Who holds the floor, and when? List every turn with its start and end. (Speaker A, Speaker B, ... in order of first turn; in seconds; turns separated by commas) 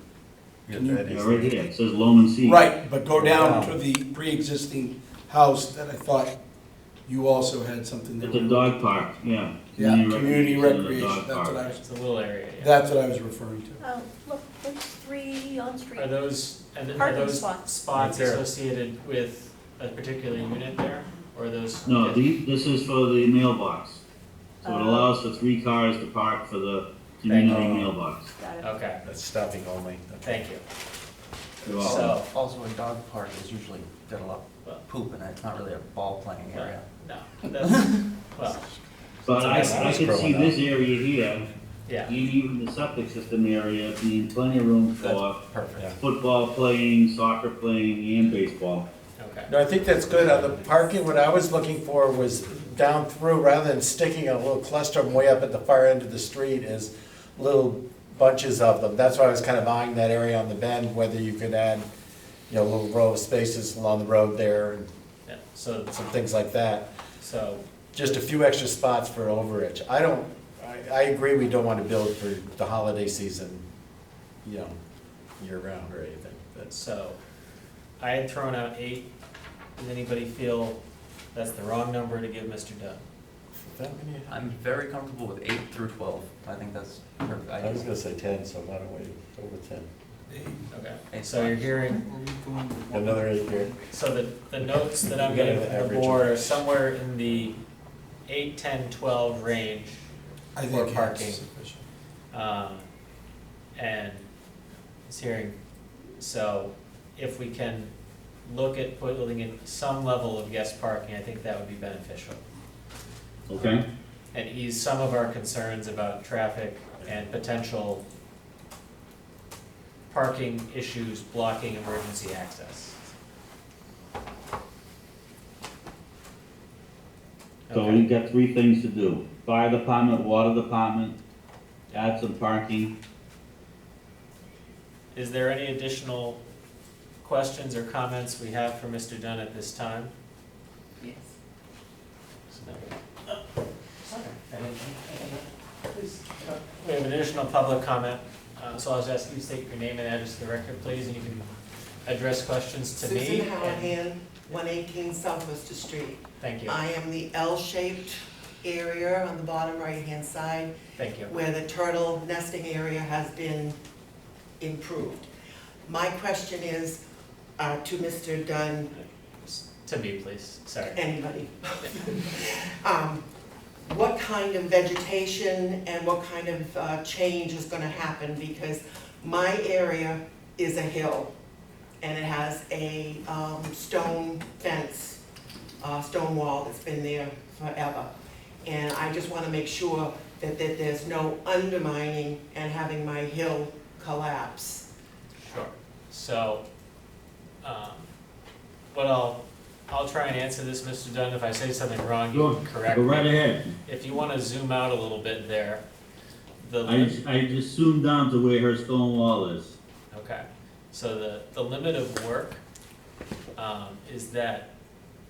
Speaker A: 0.7-1.5, Speaker B: 0.7-1.5, Speaker C: 1.1-2.6, Speaker B: 2.4-6.3, Speaker A: 3.1-3.8, Speaker B: 7.0-8.9, Speaker C: 8.2-11.8, Speaker B: 9.8-11.8, Speaker D: 11.8-12.7, Speaker B: 12.6-13.8, Speaker E: 13.8-16.1, Speaker D: 16.0-22.3, Speaker E: 16.9-17.7, Speaker A: 17.9-18.4, Speaker C: 21.8-24.0, Speaker E: 24.6-25.1, Speaker C: 24.6-28.3, Speaker D: 27.2-27.6, Speaker A: 27.5-27.9, Speaker E: 28.4-28.7, Speaker D: 28.6-29.0, Speaker A: 29.0-30.4, Speaker D: 30.2-30.6, Speaker C: 31.6-32.1, Speaker D: 31.8-32.3, Speaker F: 31.8-36.9, Speaker D: 36.5-38.6, Speaker C: 39.2-41.5, Speaker D: 39.4-40.1, Speaker A: 39.4-40.6, Speaker D: 41.9-42.1, Speaker C: 42.1-45.4, Speaker F: 45.0-45.9, Speaker C: 46.0-48.9, Speaker D: 49.2-49.5, Speaker A: 49.5-61.8, Speaker A: 62.5-64.9, Speaker D: 65.3-66.0, Speaker A: 65.9-66.9, Speaker D: 67.2-68.2, Speaker A: 67.9-73.6, Speaker A: 74.4-74.8, Speaker A: 75.4-76.7, Speaker D: 76.7-77.2, Speaker D: 78.0-79.1, Speaker D: 79.8-80.8, Speaker D: 81.3-83.0, Speaker A: 83.5-84.2, Speaker F: 84.3-87.9, Speaker A: 87.6-89.9, Speaker B: 90.3-90.7, Speaker D: 90.7-92.1, Speaker F: 91.1-92.0, Speaker B: 91.9-93.7, Speaker A: 92.9-93.7, Speaker D: 93.9-97.6, Speaker A: 95.0-96.6, Speaker D: 98.3-100.0, Speaker B: 100.6-101.8, Speaker D: 100.7-101.4, Speaker D: 102.3-102.9, Speaker D: 103.8-104.3, Speaker D: 105.1-105.6, Speaker D: 106.2-107.9, Speaker D: 108.5-112.4, Speaker C: 113.5-113.9, Speaker D: 114.3-118.0, Speaker D: 120.1-123.0, Speaker D: 127.7-128.1, Speaker C: 127.7-131.2, Speaker C: 131.9-132.9, Speaker D: 135.1-136.4, Speaker D: 137.2-140.1, Speaker G: 141.0-141.3, Speaker D: 142.5-143.3, Speaker D: 144.0-151.5, Speaker D: 152.1-153.9, Speaker G: 153.0-160.7, Speaker D: 156.4-156.8, Speaker D: 161.0-161.3, Speaker G: 161.3-163.8, Speaker G: 164.6-165.3, Speaker G: 165.9-167.0, Speaker G: 167.6-168.9, Speaker D: 168.9-171.0, Speaker G: 170.9-173.2, Speaker G: 173.8-181.3, Speaker G: 182.0-185.2, Speaker G: 185.8-188.1, Speaker G: 188.6-194.9, Speaker D: 195.4-196.6, Speaker D: 197.6-198.1, Speaker D: 198.9-205.8, Speaker C: 202.3-203.7, Speaker D: 206.6-207.2, Speaker C: 206.8-209.7, Speaker D: 210.1-212.6, Speaker D: 213.6-214.7